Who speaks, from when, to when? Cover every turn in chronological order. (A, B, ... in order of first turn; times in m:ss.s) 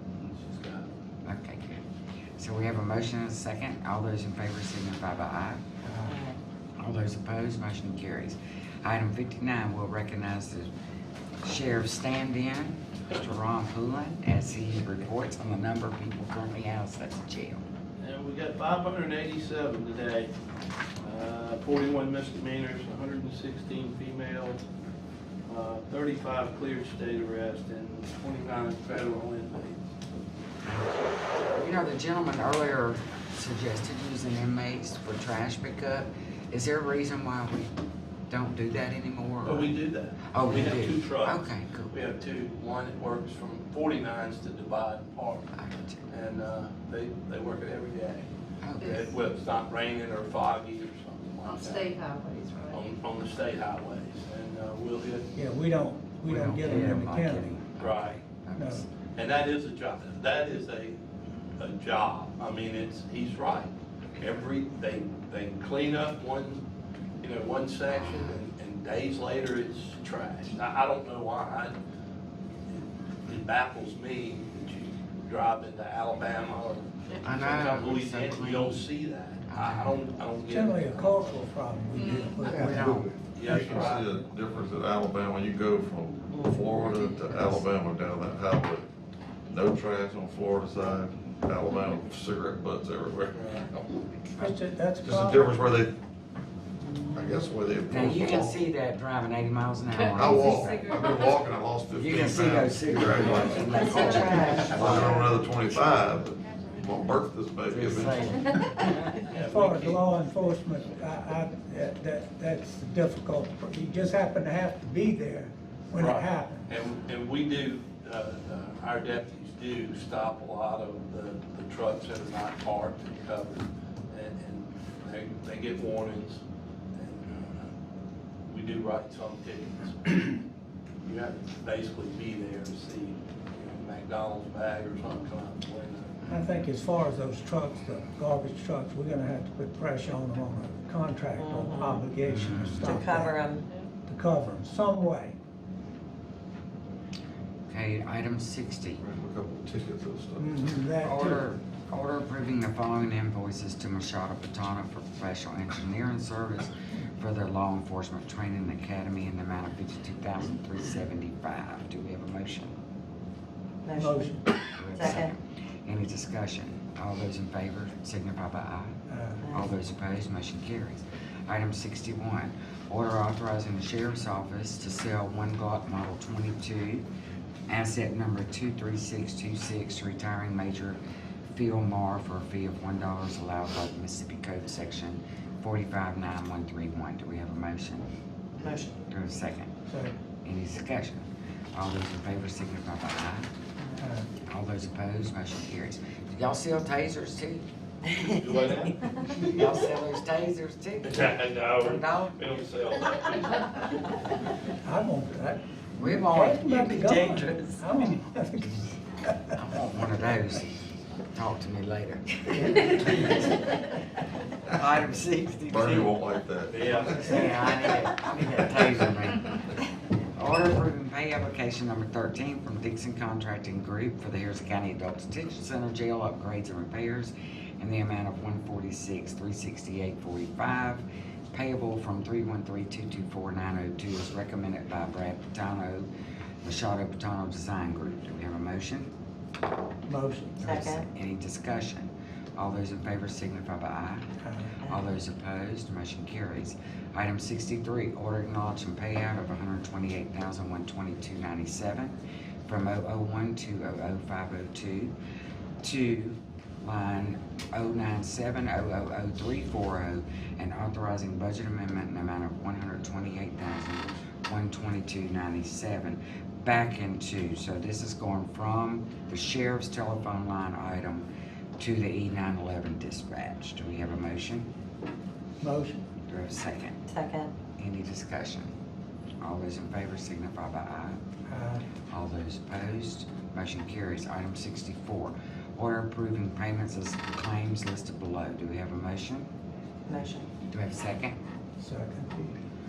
0:00.2-0:00.9 A
0:01.2-0:01.8 B
0:02.4-0:05.6 B
0:05.8-0:06.2 C
0:06.0-0:06.4 D
0:06.8-0:10.7 B
0:11.4-0:17.6 B
0:18.0-0:20.3 A
0:21.0-0:24.6 A
0:25.4-0:29.9 A
0:30.6-0:30.9 B
0:31.5-0:37.7 B
0:38.3-0:39.7 B
0:39.4-0:45.5 A
0:40.3-0:41.9 B
0:45.5-0:46.0 B
0:46.1-0:48.3 A
0:48.6-0:49.0 B
0:48.8-0:49.2 E
0:48.8-0:52.0 A
0:51.4-0:52.8 E
0:52.7-0:55.3 A
0:55.3-0:57.5 C
0:56.2-0:58.9 B
0:57.8-0:58.2 A
0:58.5-0:58.8 C
0:59.1-1:01.0 A
1:01.6-1:06.6 A
1:07.2-1:11.8 A
1:12.7-1:21.4 A
1:17.1-1:17.4 E
1:17.2-1:18.8 B
1:19.5-1:20.0 B
1:20.5-1:24.2 C
1:21.9-1:22.8 E
1:22.5-1:23.1 B
1:23.3-1:24.2 A
1:23.4-1:28.8 F
1:26.3-1:27.1 D
1:29.5-1:34.1 F
1:33.3-1:33.7 A
1:34.4-1:35.6 C
1:35.0-1:35.9 F
1:37.2-1:38.6 F
1:37.9-1:40.9 B
1:40.0-1:41.4 E
1:40.1-1:48.3 F
1:41.9-1:45.3 B
1:43.3-1:47.1 E
1:43.5-1:44.7 D
1:47.7-1:49.2 B
1:49.2-1:50.2 A
1:49.3-1:56.6 C
1:56.0-2:06.4 A
2:06.9-2:07.7 A
2:08.4-2:10.4 A
2:11.0-2:16.6 A
2:16.3-2:23.4 C
2:21.3-2:22.1 D
2:22.2-2:23.0 B
2:22.8-2:23.7 D
2:24.1-2:25.4 C
2:27.7-2:29.0 B
2:29.0-2:30.6 F
2:30.4-2:31.4 C
2:31.0-2:42.7 B
2:43.8-2:44.4 D
2:44.0-2:44.5 C
2:44.8-2:49.0 B
2:44.9-2:45.3 D
2:49.1-2:49.4 C
2:49.4-2:49.7 D
2:49.5-2:57.0 B
2:57.7-3:01.0 B
3:01.5-3:08.1 B
3:08.6-3:08.9 D
3:09.1-3:09.7 B
3:09.9-3:10.1 C
3:10.4-3:13.5 B
3:14.0-3:14.3 C
3:14.4-3:17.6 B
3:18.2-3:19.5 A
3:19.4-3:22.4 B
3:21.0-3:24.2 A
3:24.8-3:29.5 C
3:26.0-3:27.1 B
3:26.7-3:27.8 D
3:29.5-3:33.9 B
3:32.6-3:33.3 C
3:34.7-3:36.2 B
3:35.7-3:37.5 F
3:36.7-3:37.3 A
3:36.7-3:39.5 B
3:40.3-3:56.1 B
3:56.6-3:59.1 B
4:00.0-4:00.7 C
4:00.6-4:04.3 B
4:00.6-4:01.0 D
4:04.4-4:04.7 C
4:04.8-4:12.1 B
4:12.7-4:15.1 B
4:15.8-4:34.7 B
4:35.6-4:36.0 C
4:36.3-4:37.0 B
4:37.1-4:37.5 D
4:37.8-4:38.7 B
4:39.4-4:41.2 B
4:41.5-4:41.8 C
4:42.1-4:49.5 B
4:50.1-4:50.5 D
4:50.7-4:51.4 B
4:51.8-4:52.5 C